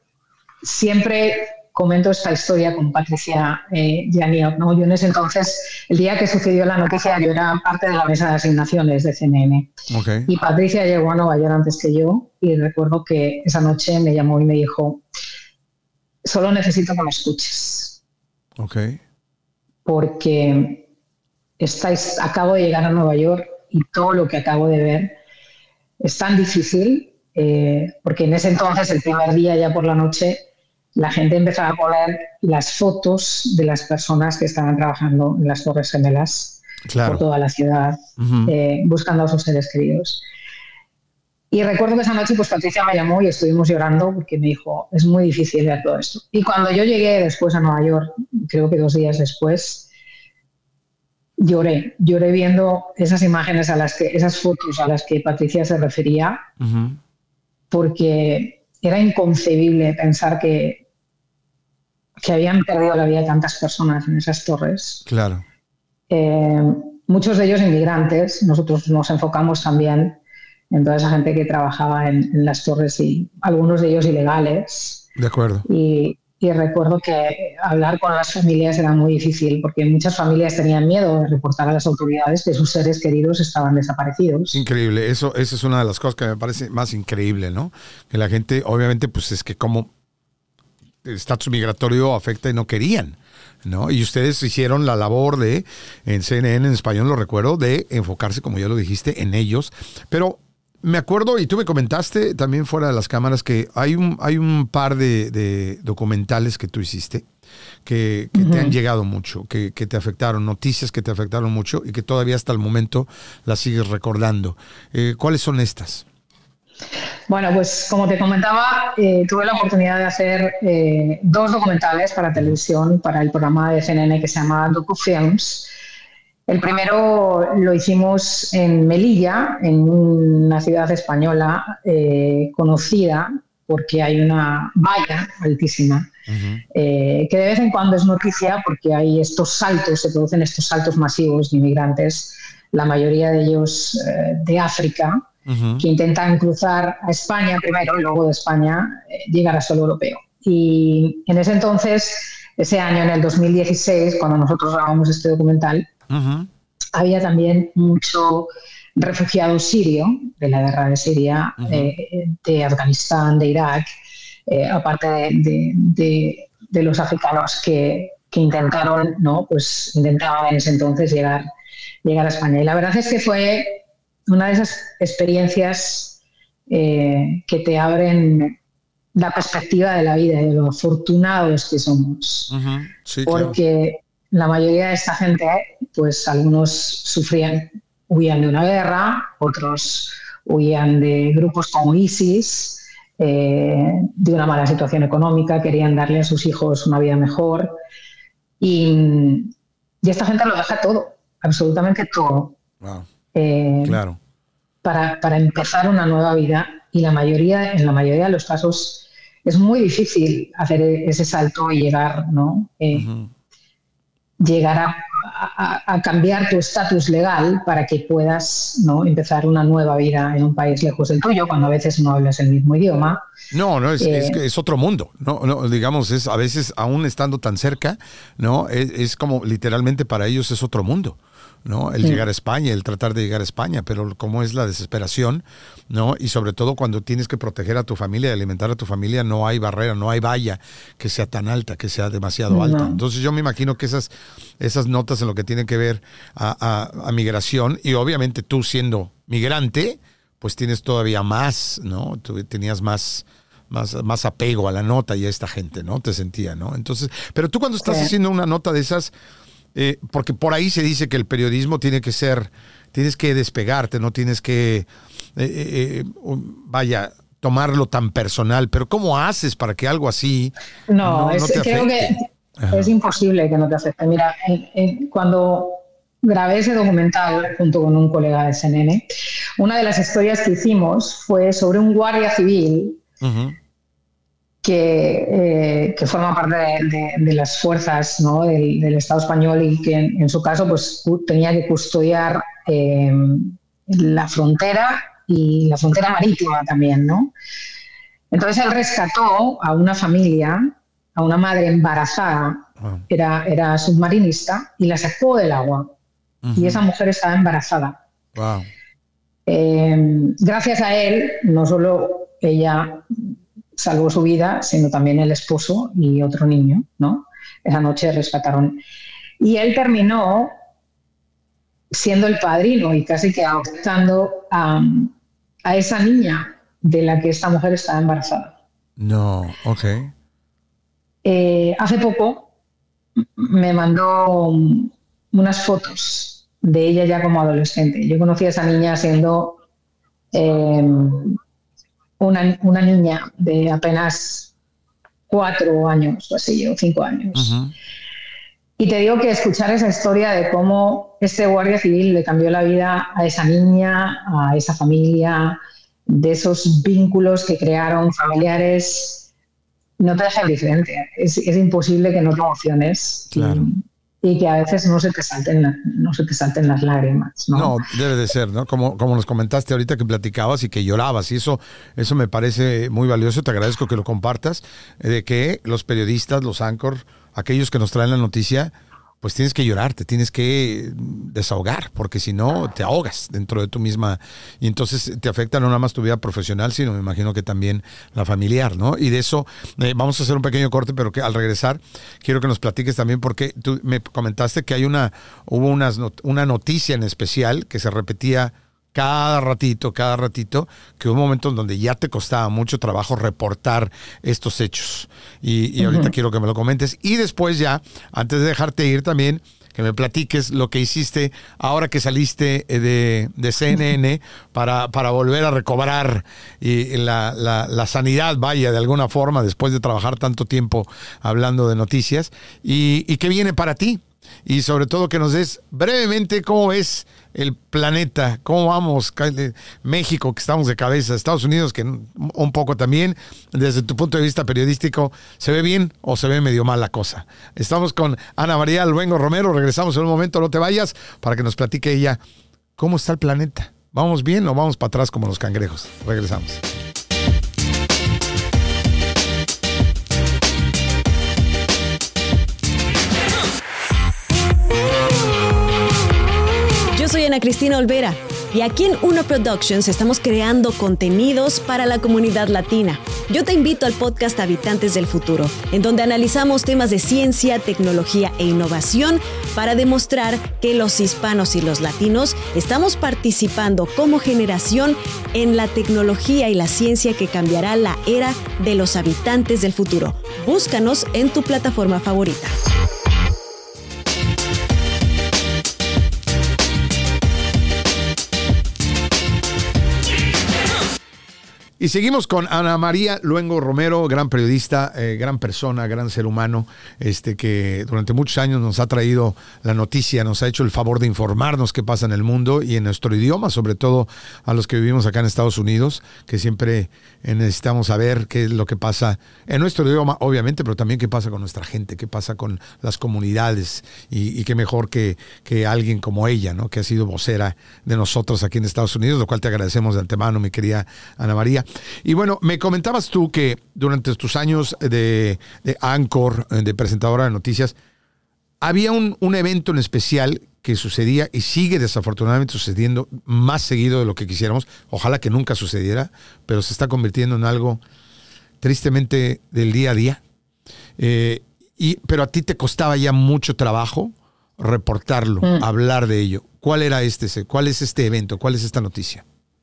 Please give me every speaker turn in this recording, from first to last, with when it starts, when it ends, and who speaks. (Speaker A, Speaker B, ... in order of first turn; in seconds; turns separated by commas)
Speaker A: 0.6-9.7, Speaker B: 9.9-10.3, Speaker A: 10.3-15.0, Speaker A: 16.2-18.0, Speaker B: 18.6-19.0, Speaker A: 19.9-20.8, Speaker A: 21.6-25.2, Speaker A: 26.0-30.4, Speaker A: 30.9-40.2, Speaker B: 36.9-37.2, Speaker B: 38.2-38.5, Speaker A: 41.5-49.9, Speaker A: 51.4-56.4, Speaker B: 56.6-57.0, Speaker A: 57.7-60.8, Speaker A: 62.2-65.0, Speaker B: 65.1-65.4, Speaker A: 66.1-70.2, Speaker A: 70.7-75.0, Speaker B: 75.2-75.7, Speaker A: 75.7-84.6, Speaker B: 84.5-89.9, Speaker B: 91.0-107.2, Speaker B: 107.8-116.0, Speaker A: 108.3-108.7, Speaker A: 117.3-125.7, Speaker A: 126.5-136.1, Speaker B: 136.3-136.6, Speaker A: 136.7-145.2, Speaker B: 145.5-145.8, Speaker A: 145.8-155.9, Speaker B: 156.1-156.5, Speaker A: 156.9-163.9, Speaker B: 161.6-161.9, Speaker A: 164.5-171.5, Speaker A: 172.0-176.2, Speaker A: 176.7-178.6, Speaker A: 179.1-182.5, Speaker B: 182.5-183.6, Speaker A: 183.3-197.8, Speaker A: 198.6-202.6, Speaker B: 202.8-203.1, Speaker A: 203.3-204.0, Speaker B: 203.8-204.2, Speaker A: 204.8-213.1, Speaker B: 212.9-213.3, Speaker A: 214.4-223.2, Speaker B: 223.5-259.1, Speaker A: 224.0-224.4, Speaker A: 242.5-243.0, Speaker A: 257.8-258.1, Speaker B: 259.8-272.9, Speaker A: 270.9-283.0, Speaker B: 283.2-283.6, Speaker A: 284.6-297.3, Speaker A: 298.3-305.9, Speaker B: 306.4-306.9, Speaker A: 306.6-308.0, Speaker B: 308.4-308.7, Speaker A: 309.5-318.8, Speaker A: 319.4-320.6, Speaker A: 321.9-325.1, Speaker A: 325.6-328.5, Speaker B: 329.0-330.1, Speaker A: 331.2-332.5, Speaker A: 333.2-339.6, Speaker A: 340.3-341.4, Speaker A: 342.2-344.5, Speaker A: 345.3-347.6, Speaker B: 347.4-347.7, Speaker A: 348.8-359.2, Speaker A: 360.0-367.8, Speaker B: 363.3-363.7, Speaker B: 367.5-442.2, Speaker A: 405.8-406.1, Speaker B: 442.8-446.6, Speaker C: 456.9-482.6, Speaker B: 491.8-527.8, Speaker B: 528.6-537.8, Speaker B: 538.6-540.2, Speaker B: 541.0-549.2